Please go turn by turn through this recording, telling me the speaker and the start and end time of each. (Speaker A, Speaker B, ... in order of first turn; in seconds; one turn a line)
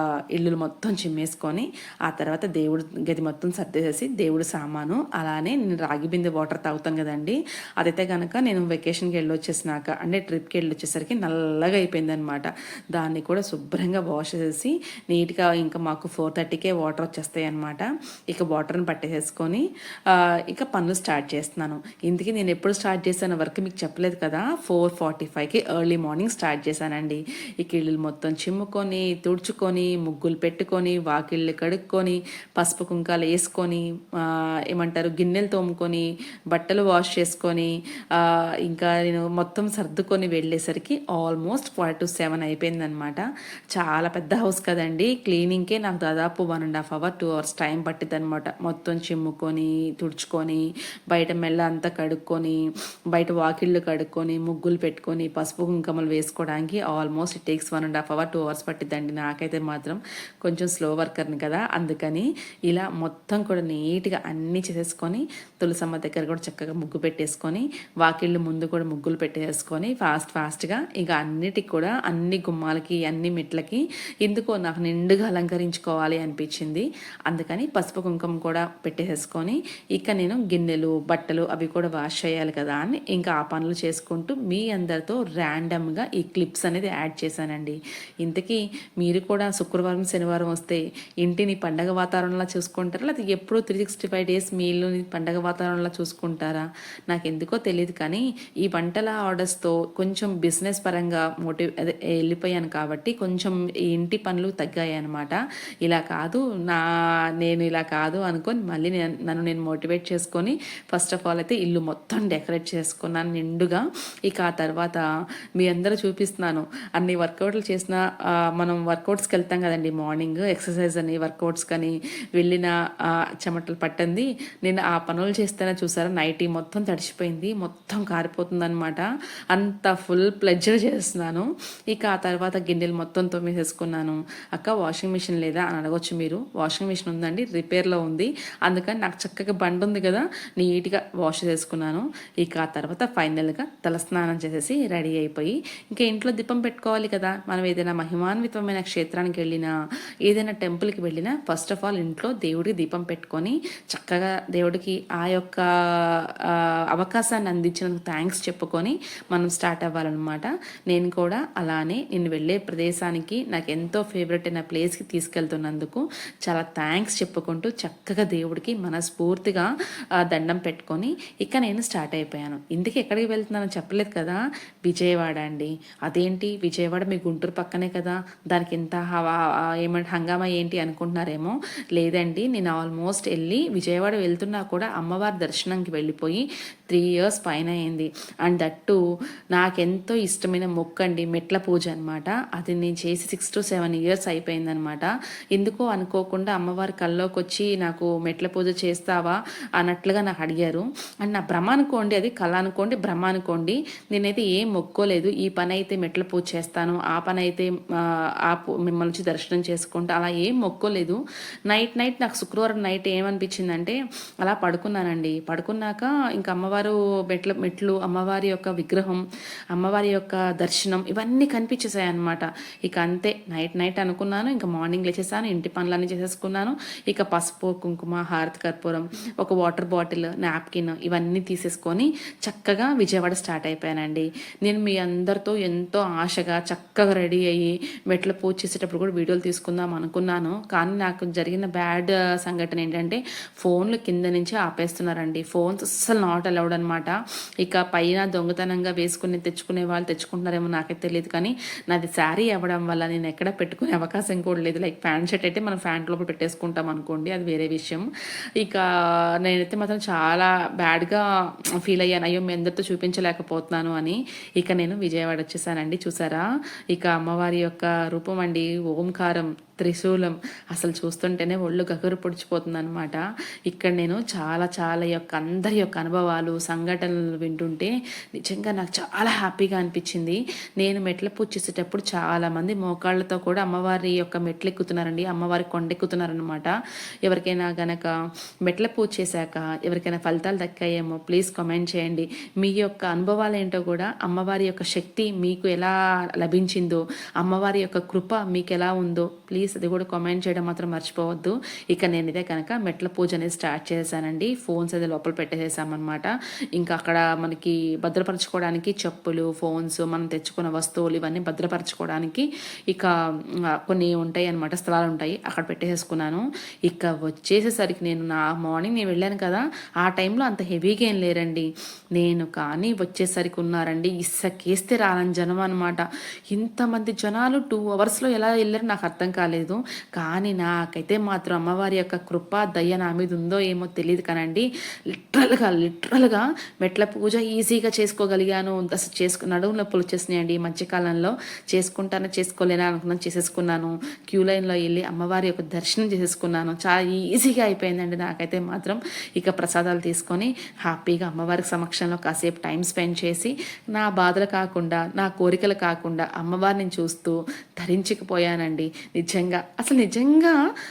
Speaker A: 0.3-52.6
Speaker A: 53.1-106.8
Speaker A: 107.4-115.0
Speaker A: 115.6-118.0
Speaker A: 118.5-149.7
Speaker A: 150.3-169.7
Speaker A: 170.2-189.0
Speaker A: 189.5-207.7
Speaker A: 208.4-219.2
Speaker A: 219.7-258.1
Speaker A: 259.4-261.2
Speaker A: 261.8-286.7
Speaker A: 287.2-288.1
Speaker A: 288.6-313.1
Speaker A: 313.8-360.6